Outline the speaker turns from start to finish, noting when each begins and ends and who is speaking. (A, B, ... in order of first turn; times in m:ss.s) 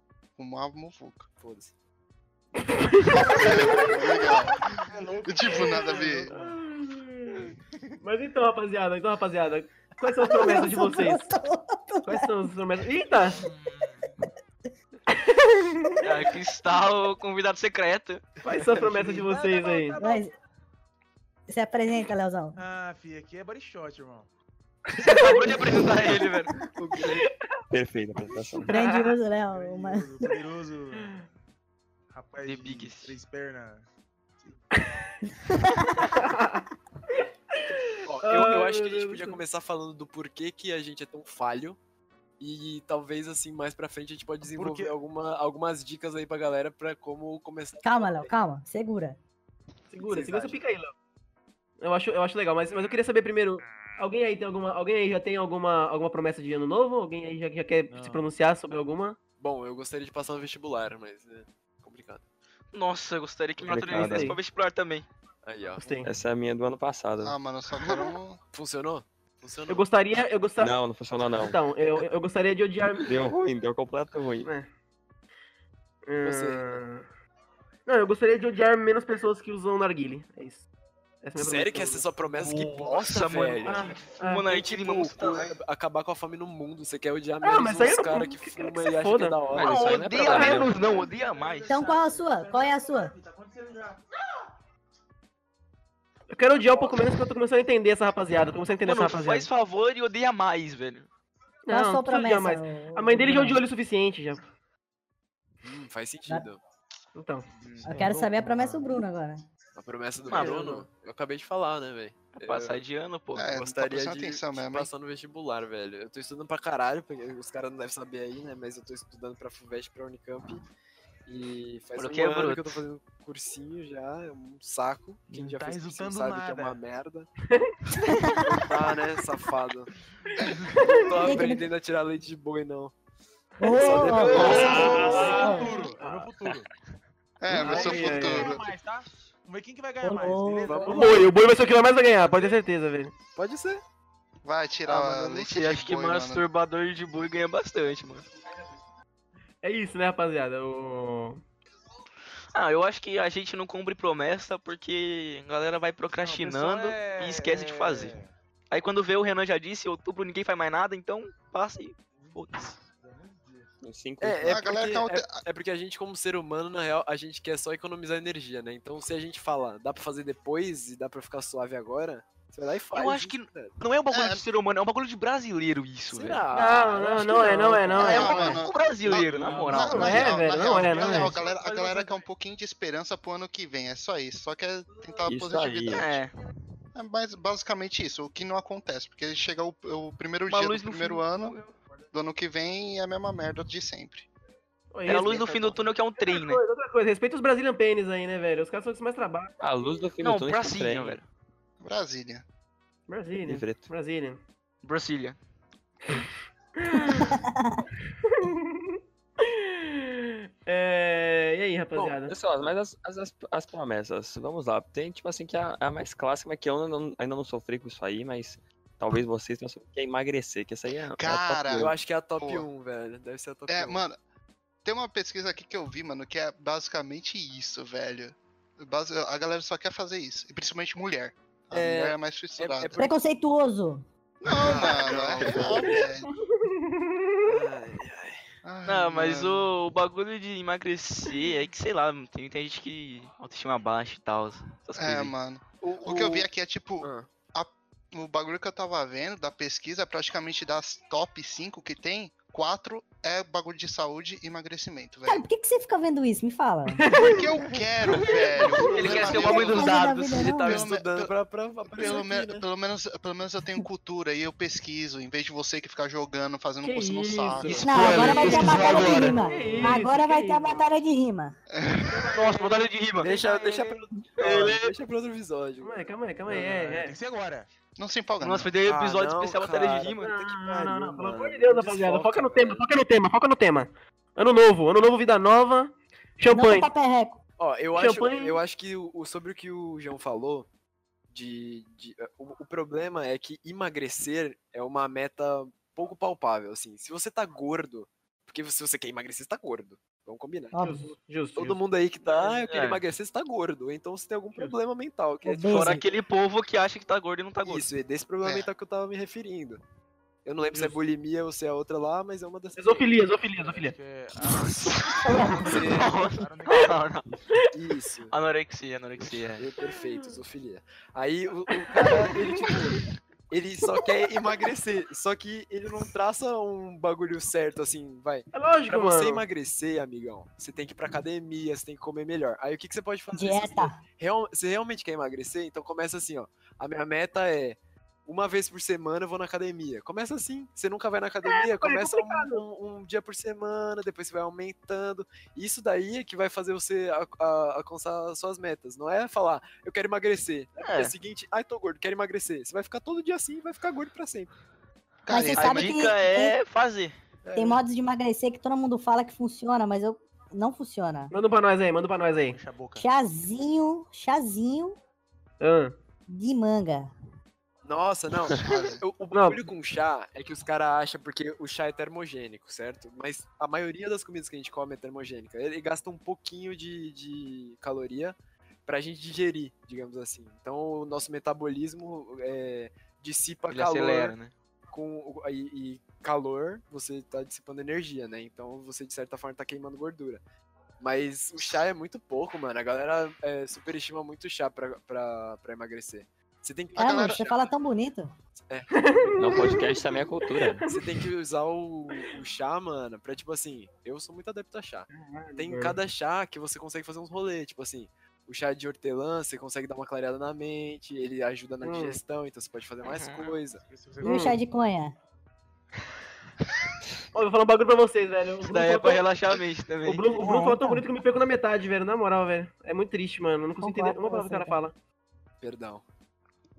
0:00.4-0:01.3 A
0:01.4-0:01.7 B
0:02.6-0:03.8 C
0:03.2-0:06.7 D
0:03.2-0:04.7 A
0:05.3-0:06.3 A
0:06.3-0:07.5 C
0:08.0-0:11.2 C
0:10.2-0:12.3 E
0:12.0-0:13.4 C
0:13.4-0:13.9 F
0:15.1-0:16.1 C
0:16.0-0:18.3 F
0:18.4-0:19.4 B
0:18.4-0:20.0 C
0:19.2-0:20.3 D
0:20.0-0:20.3 E
0:21.5-0:22.6 E
0:22.6-0:24.3 D
0:25.0-0:26.5 F
0:25.2-0:25.8 C
0:26.7-0:27.3 B
0:27.7-0:28.8 G
0:28.6-0:29.2 C
0:28.7-0:30.1 E
0:29.3-0:31.2 D
0:32.1-0:33.9 D
0:32.4-0:33.2 F
0:34.4-0:34.8 D
0:35.5-0:35.8 E
0:36.0-0:39.4 C
0:38.0-0:41.8 B
0:42.4-0:48.2 B
0:44.4-0:45.0 D
0:47.8-0:49.2 E
0:49.9-0:50.9 C
0:50.1-0:50.6 B
0:51.8-0:59.2 C
0:57.9-0:58.3 D
0:59.4-1:02.2 B
1:02.7-1:05.1 F
1:03.6-1:04.4 G
1:03.9-1:04.4 C
1:05.4-1:05.9 B
1:05.8-1:06.1 C
1:06.0-1:07.4 G
1:07.2-1:08.4 A
1:08.5-1:09.9 B
1:09.7-1:10.8 C
1:10.6-1:12.0 G
1:11.3-1:13.2 C
1:13.0-1:14.5 G
1:14.4-1:14.7 C
1:16.1-1:17.1 C
1:16.2-1:16.8 B
1:17.9-1:20.7 C
1:21.2-1:22.1 C
1:21.4-1:29.9 B
1:22.4-1:25.5 F
1:23.7-1:24.5 C
1:27.4-1:29.4 C
1:29.5-1:30.9 G
1:29.6-1:31.8 F
1:30.3-1:34.0 D
1:31.7-1:33.1 E
1:36.3-1:39.5 C
1:38.8-1:41.1 F
1:41.7-1:44.5 C
1:41.7-1:43.6 E
1:45.6-1:46.6 B
1:47.2-1:47.5 C
1:47.6-1:48.0 F
1:47.8-1:48.9 D
1:47.8-1:49.4 E
1:49.8-1:52.8 B
1:50.3-1:50.8 F
1:50.3-1:50.7 C
1:52.4-1:53.5 F
1:53.4-1:54.9 A
1:53.4-2:00.6 B
2:01.3-2:07.3 B
2:02.0-2:02.8 F
2:05.3-2:06.8 D
2:08.4-2:09.9 B
2:10.4-2:11.2 D
2:10.8-2:12.9 B
2:11.2-2:11.7 E
2:13.6-2:16.0 E
2:13.6-2:15.4 B
2:13.7-2:16.3 C
2:14.2-2:16.7 D
2:14.3-2:15.3 A
2:17.4-2:18.7 A
2:17.5-2:21.4 D
2:17.6-2:18.5 C
2:20.0-2:21.0 E
2:20.6-2:21.0 B
2:20.9-2:23.1 C
2:22.2-2:22.6 D
2:23.4-2:23.8 B
2:24.4-2:26.4 A
2:24.9-2:28.3 F
2:29.6-2:31.4 C
2:32.5-2:38.2 F
2:36.1-2:38.3 D
2:38.7-2:42.8 F
2:42.2-2:43.7 D
2:43.8-2:44.6 G
2:44.2-2:53.7 B
2:44.4-2:45.4 A
2:52.9-2:56.4 F
2:54.1-2:54.4 A
2:56.1-2:58.4 B
2:56.5-2:58.6 C
2:58.0-3:06.2 A
2:58.0-3:00.4 F
2:59.5-2:59.9 D
2:59.6-3:01.4 C
3:00.7-3:02.3 D
3:05.3-3:06.1 G
3:05.9-3:06.3 F
3:07.0-3:11.6 A
3:10.5-3:11.7 F
3:12.1-3:14.3 A
3:14.9-3:19.5 C
3:15.1-3:16.6 F
3:19.6-3:21.2 G
3:20.2-3:21.2 F
3:21.8-3:22.4 A
3:23.1-3:24.4 C
3:23.4-3:23.9 G
3:24.8-3:25.4 F
3:26.8-3:27.4 C
3:27.2-3:27.8 E
3:28.2-3:32.4 C
3:32.0-3:32.7 B
3:32.3-3:41.9 G
3:41.2-3:42.7 A
3:41.7-3:44.0 B
3:43.7-3:44.2 A
3:44.8-3:53.1 A
3:51.7-3:53.2 B
3:53.0-3:54.0 E
3:54.4-3:56.3 A
3:54.6-3:56.0 B
3:54.7-3:56.0 F
3:56.5-3:57.4 C
3:57.4-3:58.4 B
3:58.6-3:59.7 A
3:58.9-4:05.3 F
4:05.0-4:15.5 A
4:05.8-4:06.5 B
4:07.0-4:07.3 B
4:15.3-4:17.2 E
4:17.0-4:17.4 C
4:17.1-4:21.3 A
4:17.6-4:19.2 D
4:18.1-4:20.5 F
4:19.2-4:19.8 B
4:19.4-4:20.9 E
4:20.3-4:22.7 B
4:21.9-4:28.2 A
4:26.8-4:30.8 C
4:27.6-4:28.1 B
4:27.6-4:31.6 E
4:27.9-4:29.4 F
4:31.7-4:32.2 A
4:32.0-4:34.1 D
4:32.3-4:33.3 F
4:33.2-4:36.0 B
4:34.4-4:34.9 F
4:35.8-4:37.2 C
4:36.5-4:37.7 D
4:38.0-4:38.7 A
4:38.4-4:40.4 F
4:38.8-4:42.9 B
4:40.2-4:46.9 C
4:46.5-4:47.4 E
4:47.6-4:50.7 B
4:48.0-4:48.6 C
4:51.3-5:00.8 B
5:00.7-5:01.1 E
5:00.8-5:01.8 C
5:01.6-5:06.0 B
5:02.6-5:03.0 F
5:05.4-5:06.0 E
5:05.7-5:07.9 F
5:07.6-5:09.8 B
5:08.4-5:08.7 A
5:10.4-5:13.0 B
5:12.8-5:14.0 C
5:13.5-5:17.2 D
5:14.6-5:17.2 F
5:15.3-5:16.2 B
5:17.7-5:18.3 B
5:18.3-5:19.7 F
5:19.2-5:22.9 B
5:21.9-5:23.0 C
5:23.5-5:54.5 B
5:28.5-5:29.4 C
5:33.3-5:34.0 E
5:41.4-5:42.6 C
5:50.8-5:51.1 F
5:55.3-5:56.1 A
5:55.3-5:56.6 E
5:55.5-5:57.2 F
5:57.4-5:57.8 B
5:57.6-6:01.3 E
6:01.3-6:02.6 C
6:02.5-6:03.1 D
6:03.0-6:05.0 E
6:05.6-6:05.9 C
6:06.3-6:07.1 E
6:07.8-6:24.4 B
6:08.6-6:09.0 A
6:09.3-6:09.7 C
6:23.7-6:24.5 F
6:24.9-6:30.4 B
6:31.0-6:37.7 B
6:37.0-6:37.4 A
6:37.0-6:38.4 E
6:38.6-6:40.0 B
6:39.0-6:40.9 C
6:39.4-6:40.9 G
6:40.8-6:53.8 B
6:45.1-6:46.0 C
6:51.8-6:52.2 C
6:53.0-6:53.6 F
6:53.8-6:54.6 D
6:54.2-6:55.2 E
6:54.2-6:54.6 C
6:57.3-6:59.3 C
6:58.6-7:00.4 F
7:00.1-7:04.9 C
7:00.4-7:01.0 E
7:03.8-7:04.8 E
7:05.6-7:06.0 B